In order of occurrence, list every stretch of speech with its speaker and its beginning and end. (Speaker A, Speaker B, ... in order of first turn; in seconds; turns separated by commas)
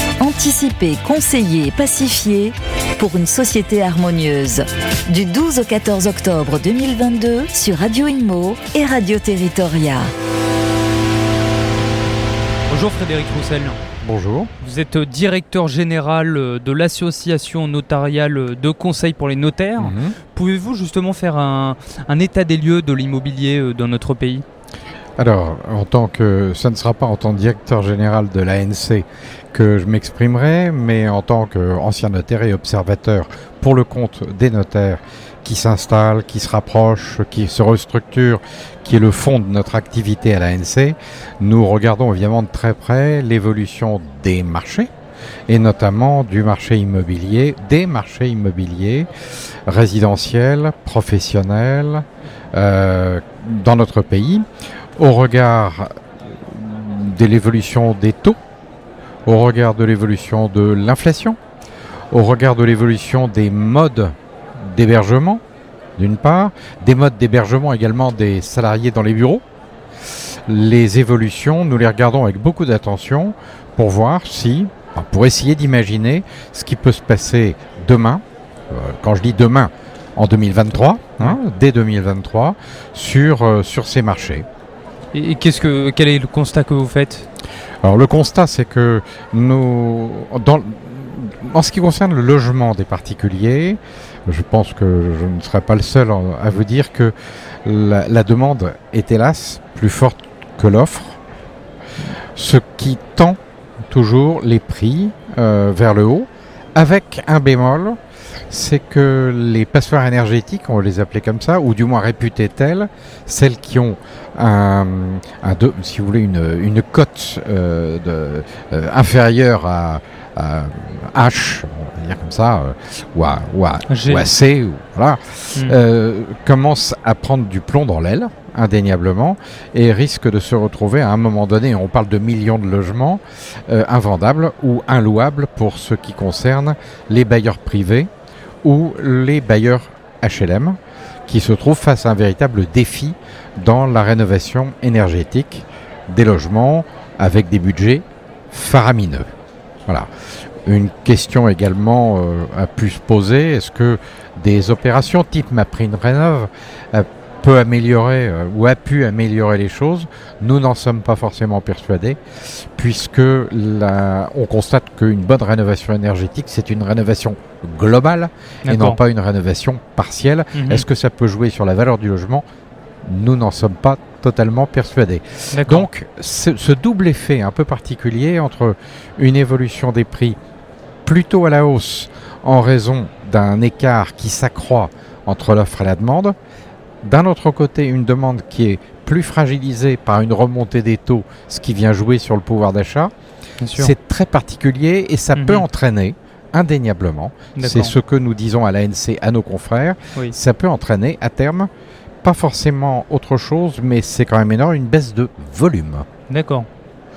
Speaker A: 0.2-10.1, Speaker B: 12.7-13.8, Speaker C: 14.0-14.5, Speaker B: 14.6-24.4, Speaker C: 19.8-20.2, Speaker C: 25.2-44.9, Speaker C: 45.5-49.1, Speaker C: 49.7-54.5, Speaker C: 55.0-55.9, Speaker C: 56.5-58.4, Speaker C: 59.3-61.4, Speaker C: 62.1-65.4, Speaker C: 66.0-69.4, Speaker C: 70.5-84.5, Speaker B: 85.1-87.3, Speaker C: 87.8-97.1, Speaker C: 97.7-101.2, Speaker C: 102.4-103.4, Speaker C: 103.9-108.0, Speaker C: 108.5-138.1, Speaker B: 123.9-124.3, Speaker C: 138.6-149.3, Speaker C: 150.7-162.2, Speaker C: 162.8-172.4, Speaker B: 168.7-169.0, Speaker B: 170.6-170.8, Speaker C: 173.1-180.4, Speaker B: 175.5-175.9, Speaker C: 181.1-186.3, Speaker C: 187.0-193.1, Speaker B: 193.6-193.9, Speaker C: 193.8-201.7, Speaker B: 195.3-195.7, Speaker B: 197.6-197.9, Speaker C: 202.2-206.1, Speaker B: 206.3-206.7